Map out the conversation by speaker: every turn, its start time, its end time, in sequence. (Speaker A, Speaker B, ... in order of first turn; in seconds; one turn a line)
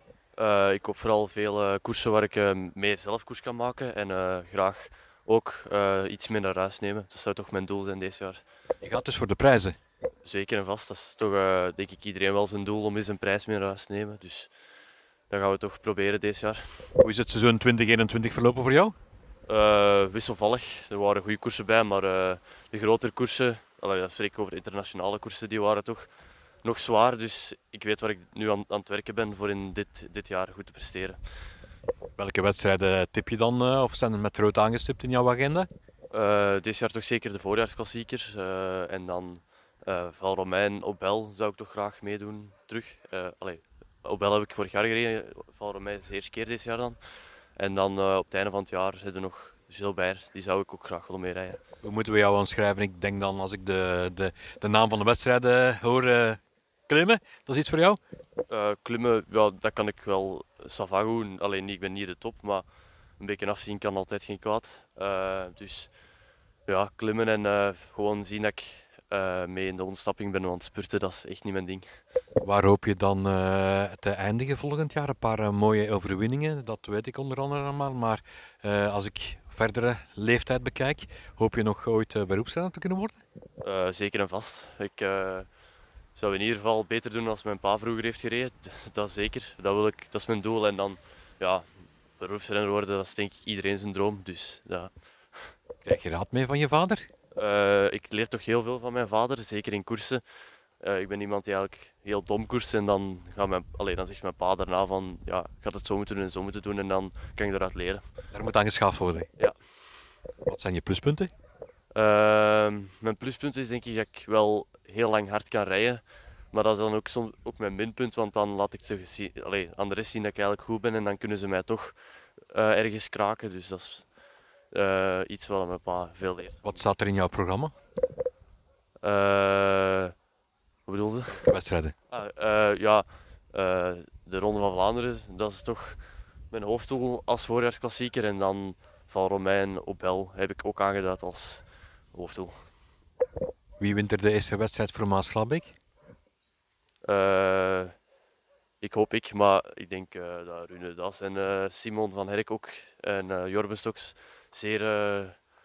Speaker A: 0.4-8.4
Speaker B: 8.8-9.8
Speaker A: 10.2-14.5
Speaker A: 15.3-16.9
Speaker B: 17.0-18.9
Speaker A: 19.4-26.1
Speaker A: 26.6-31.2
Speaker B: 32.2-35.7
Speaker A: 36.1-51.6
Speaker B: 51.8-58.0
Speaker A: 58.5-62.6
Speaker A: 63.2-65.9
Speaker A: 66.7-71.9
Speaker B: 72.4-83.2
Speaker A: 83.6-85.5
Speaker A: 86.1-91.7
Speaker A: 92.2-95.5
Speaker B: 95.8-97.0
Speaker A: 97.3-100.2
Speaker A: 100.8-108.0
Speaker B: 108.3-109.3
Speaker B: 110.5-111.3
Speaker A: 111.9-124.1
Speaker A: 124.7-126.8
Speaker B: 126.6-127.7
Speaker A: 129.0-130.1
Speaker A: 130.9-131.5
Speaker B: 131.3-131.9
Speaker A: 132.1-142.6
Speaker B: 143.8-145.7
Speaker A: 147.0-147.9
Speaker A: 148.8-155.4